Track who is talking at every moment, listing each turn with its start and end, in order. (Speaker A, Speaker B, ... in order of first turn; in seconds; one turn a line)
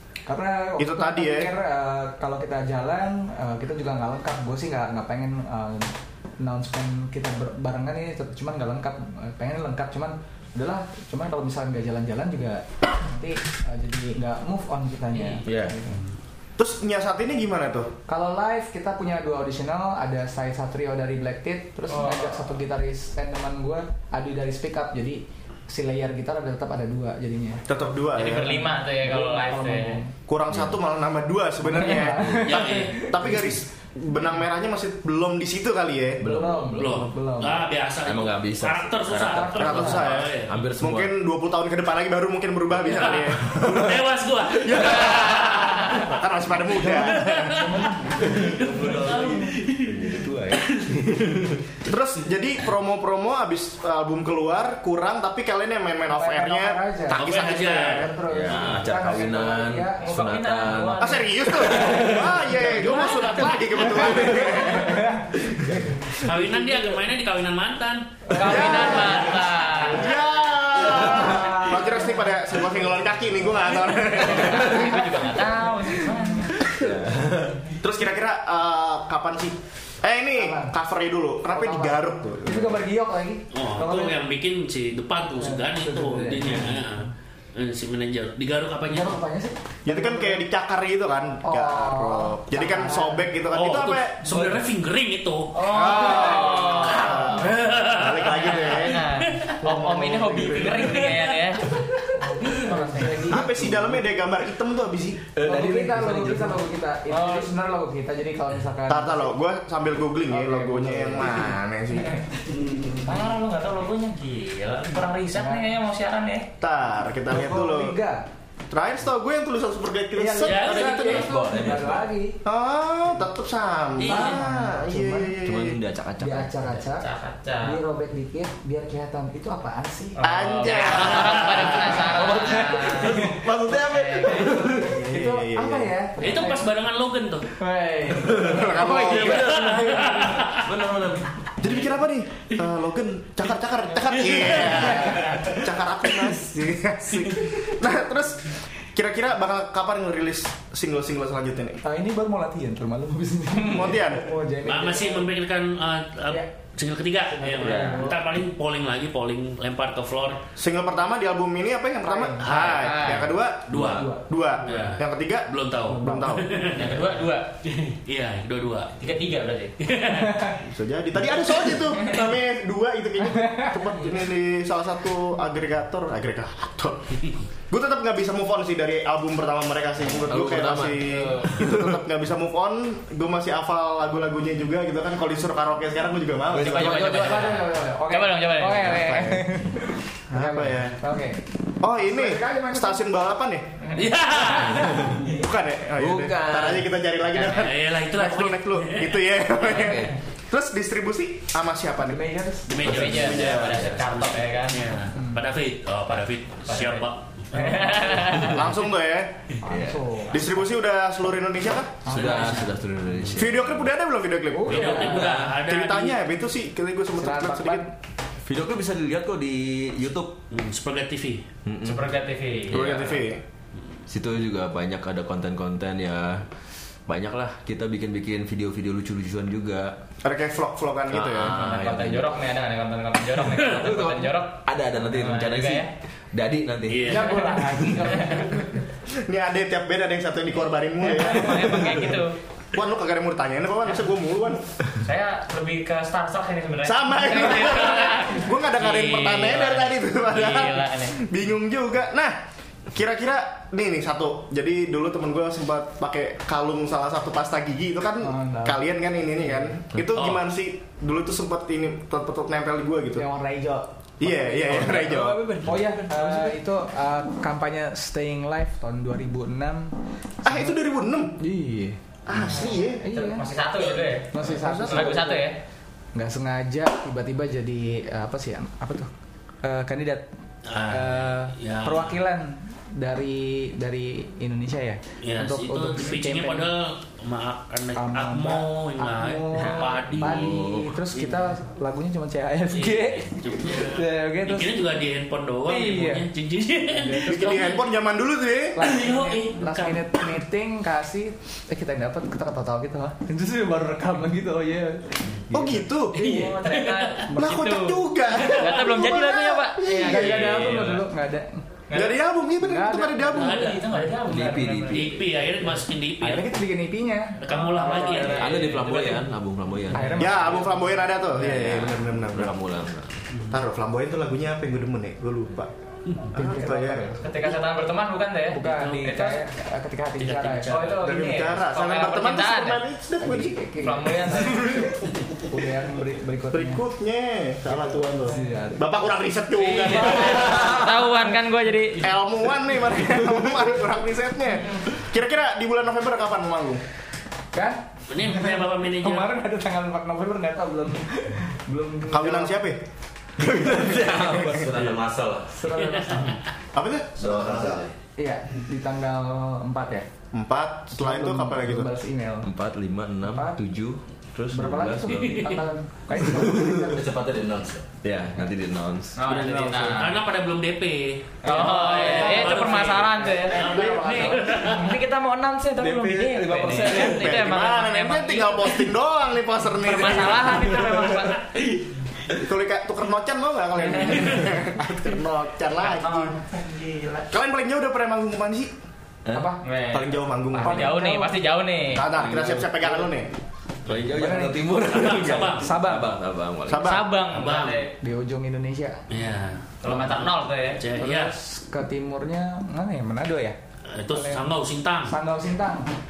Speaker A: 0.3-16.0
Speaker B: 0.8-1.5
Speaker C: 15.1-15.4
Speaker D: 15.4-15.8
Speaker B: 16.6-17.9
Speaker A: 18.1-27.6
Speaker C: 21.9-22.4
Speaker B: 27.7-28.7
Speaker C: 28.1-30.0
Speaker A: 28.3-30.1
Speaker B: 30.3-36.3
Speaker D: 30.5-30.8
Speaker A: 31.6-33.5
Speaker D: 32.2-32.5
Speaker E: 32.4-33.0
Speaker D: 36.2-36.9
Speaker A: 36.2-37.6
Speaker E: 36.7-40.6
Speaker D: 38.0-39.9
Speaker A: 39.1-40.2
Speaker B: 39.6-44.0
Speaker D: 40.4-41.1
Speaker E: 42.8-46.1
Speaker D: 43.5-43.9
Speaker B: 44.5-47.7
Speaker E: 46.8-50.1
Speaker A: 47.5-49.5
Speaker D: 48.2-51.6
Speaker B: 51.8-58.1
Speaker A: 56.1-60.3
Speaker E: 57.1-58.6
Speaker D: 58.2-61.1
Speaker C: 60.0-61.6
Speaker B: 61.0-65.2
Speaker D: 61.7-62.4
Speaker E: 62.5-63.8
Speaker A: 62.8-63.2
Speaker D: 64.0-64.4
Speaker A: 64.2-66.1
Speaker D: 65.5-65.9
Speaker E: 66.2-69.0
Speaker A: 68.3-69.2
Speaker C: 68.3-70.1
Speaker B: 68.4-75.1
Speaker A: 70.8-72.7
Speaker C: 74.1-76.6
Speaker A: 74.5-76.5
Speaker D: 76.7-77.7
Speaker B: 77.8-82.8
Speaker A: 80.3-80.7
Speaker A: 81.5-84.2
Speaker E: 83.5-89.2
Speaker A: 85.4-86.9
Speaker A: 88.8-90.4
Speaker B: 89.8-94.5
Speaker A: 91.4-93.3
Speaker E: 93.5-99.5
Speaker C: 95.5-97.5
Speaker B: 95.6-99.1
Speaker C: 98.4-103.3
Speaker A: 99.6-100.4
Speaker B: 99.7-100.8
Speaker E: 100.8-101.8
Speaker A: 102.2-104.0
Speaker B: 103.2-105.3
Speaker D: 105.3-106.6
Speaker A: 105.4-109.3
Speaker C: 107.1-107.5
Speaker B: 108.9-112.2
Speaker A: 110.3-111.5
Speaker C: 113.0-116.5
Speaker A: 115.3-115.7
Speaker B: 116.6-118.0
Speaker A: 117.3-118.2
Speaker B: 118.7-121.3
Speaker A: 120.1-122.4
Speaker E: 120.4-121.3
Speaker D: 121.2-122.1
Speaker B: 122.4-125.8
Speaker E: 124.0-124.4
Speaker A: 124.0-125.4
Speaker D: 125.4-126.5
Speaker A: 126.2-127.1
Speaker C: 126.9-127.8
Speaker A: 127.6-130.4
Speaker B: 130.2-132.1
Speaker C: 130.2-134.5
Speaker E: 130.5-131.6
Speaker A: 132.0-133.5
Speaker D: 132.2-135.0
Speaker A: 134.4-136.7
Speaker B: 134.8-135.9
Speaker E: 136.2-137.5
Speaker A: 137.6-140.6
Speaker D: 138.2-139.9
Speaker B: 138.4-139.5
Speaker E: 139.1-140.7
Speaker D: 140.5-141.4
Speaker B: 141.6-151.8
Speaker E: 144.2-145.0
Speaker A: 144.7-145.6
Speaker A: 151.8-155.3
Speaker B: 153.6-154.3
Speaker E: 154.6-160.4
Speaker A: 157.3-158.2
Speaker D: 157.6-158.1
Speaker B: 160.6-166.5
Speaker A: 162.0-162.8
Speaker E: 162.4-168.9
Speaker C: 162.8-163.3
Speaker A: 163.7-164.2
Speaker A: 165.9-166.4
Speaker C: 166.7-167.5
Speaker C: 169.0-169.7
Speaker E: 169.8-170.6
Speaker A: 170.1-170.6
Speaker B: 170.6-177.2
Speaker A: 173.2-173.8
Speaker B: 177.7-187.2
Speaker D: 180.3-182.0
Speaker C: 181.0-181.5
Speaker D: 186.5-187.7
Speaker C: 186.5-189.1
Speaker A: 187.1-191.4
Speaker B: 188.8-189.6
Speaker B: 190.3-191.0
Speaker B: 191.8-193.8
Speaker A: 191.9-193.0
Speaker E: 193.9-195.2
Speaker D: 194.5-195.2
Speaker B: 195.2-202.2
Speaker D: 196.0-196.9
Speaker E: 197.4-199.2
Speaker D: 199.7-200.2
Speaker A: 202.1-202.9
Speaker E: 202.7-208.4
Speaker D: 202.8-203.8
Speaker C: 202.8-205.0
Speaker A: 205.1-205.4
Speaker C: 206.7-208.6
Speaker A: 207.7-207.9
Speaker B: 208.4-209.4
Speaker A: 209.6-210.7
Speaker D: 209.7-210.0
Speaker B: 210.3-212.0
Speaker A: 212.1-212.7
Speaker D: 212.1-213.9
Speaker E: 212.2-212.6
Speaker B: 213.3-217.9
Speaker A: 214.5-215.5
Speaker E: 214.7-216.2
Speaker A: 217.2-217.9
Speaker D: 218.4-220.4
Speaker E: 220.5-221.4
Speaker D: 221.6-222.1
Speaker C: 221.8-223.0
Speaker D: 222.7-223.2
Speaker B: 222.7-223.4
Speaker D: 224.1-226.4
Speaker D: 227.1-229.9
Speaker B: 230.2-231.6
Speaker D: 231.1-232.4
Speaker C: 231.5-235.9
Speaker D: 233.6-237.8
Speaker E: 236.9-237.7
Speaker A: 237.0-238.8
Speaker C: 238.0-238.5
Speaker B: 239.2-242.0
Speaker C: 241.0-242.3
Speaker B: 242.7-244.6
Speaker C: 245.0-251.2
Speaker B: 246.8-263.2
Speaker A: 258.2-258.8
Speaker E: 260.1-260.4
Speaker A: 263.1-270.8
Speaker B: 264.2-265.6
Speaker D: 265.6-266.3
Speaker B: 270.4-271.4
Speaker A: 271.4-273.5
Speaker B: 272.3-273.0
Speaker C: 272.7-275.6
Speaker A: 274.3-275.5
Speaker B: 274.4-275.2
Speaker A: 276.1-279.1
Speaker A: 279.6-280.2
Speaker E: 280.7-282.2
Speaker A: 280.8-286.7
Speaker E: 285.2-291.5
Speaker A: 287.9-294.8
Speaker D: 290.1-290.9
Speaker E: 292.7-297.8
Speaker A: 295.7-296.2
Speaker A: 296.9-297.7
Speaker B: 297.2-298.9
Speaker A: 298.7-305.8
Speaker E: 298.8-300.3
Speaker B: 305.5-306.3
Speaker C: 306.1-311.0
Speaker E: 306.1-307.3
Speaker B: 307.3-310.6
Speaker E: 308.3-308.8
Speaker A: 309.9-311.7
Speaker C: 311.9-312.2
Speaker B: 311.9-313.7
Speaker A: 312.6-313.7
Speaker E: 313.3-314.1
Speaker C: 313.4-315.2
Speaker D: 314.2-315.2
Speaker E: 314.9-316.6
Speaker A: 315.7-318.7
Speaker E: 317.4-319.2
Speaker C: 317.9-318.5
Speaker D: 318.2-320.3
Speaker A: 319.9-321.1
Speaker B: 320.1-322.6
Speaker D: 321.4-323.2
Speaker B: 323.5-325.7
Speaker B: 326.3-327.2
Speaker A: 326.3-327.3
Speaker C: 327.2-329.4
Speaker A: 328.5-331.0
Speaker E: 328.6-329.2
Speaker E: 330.2-331.0
Speaker C: 330.6-332.8
Speaker B: 331.0-333.6
Speaker A: 333.2-336.8
Speaker C: 333.8-334.8
Speaker B: 334.5-334.9
Speaker B: 336.5-340.9
Speaker A: 338.2-338.9
Speaker C: 339.9-342.1
Speaker A: 340.1-340.9
Speaker B: 342.0-346.8
Speaker A: 347.5-352.6
Speaker E: 348.1-349.3
Speaker B: 352.1-352.8
Speaker D: 353.4-355.6
Speaker B: 353.6-354.3
Speaker A: 355.5-356.4
Speaker E: 355.7-356.4
Speaker B: 356.7-357.9
Speaker D: 357.2-357.9
Speaker A: 358.2-360.1
Speaker B: 360.3-361.9
Speaker A: 360.9-362.5
Speaker D: 362.4-365.5
Speaker A: 363.2-363.6
Speaker A: 364.5-367.1
Speaker E: 365.1-365.7
Speaker D: 366.1-370.0
Speaker C: 369.2-370.2
Speaker A: 369.2-370.0
Speaker E: 369.9-374.9
Speaker C: 371.4-378.8
Speaker A: 371.5-374.2
Speaker B: 373.4-374.6
Speaker D: 375.8-377.3
Speaker B: 376.9-380.8
Speaker C: 379.8-381.4
Speaker B: 382.4-386.4
Speaker E: 384.1-384.4
Speaker C: 385.8-387.3
Speaker B: 387.3-388.7
Speaker D: 389.2-389.5
Speaker A: 389.3-389.6
Speaker C: 389.6-392.1
Speaker B: 389.9-391.0
Speaker A: 390.6-391.4
Speaker B: 391.9-393.3
Speaker D: 392.1-392.8
Speaker D: 393.9-396.9
Speaker A: 394.0-394.7
Speaker E: 394.9-395.7
Speaker A: 395.3-396.1
Speaker B: 396.7-397.1
Speaker C: 396.8-397.9
Speaker E: 397.3-397.8
Speaker A: 398.0-399.0
Speaker E: 399.1-400.1
Speaker C: 399.8-400.8
Speaker E: 400.8-401.3
Speaker A: 400.9-403.6
Speaker E: 403.9-405.1
Speaker A: 404.1-404.4
Speaker A: 405.1-405.9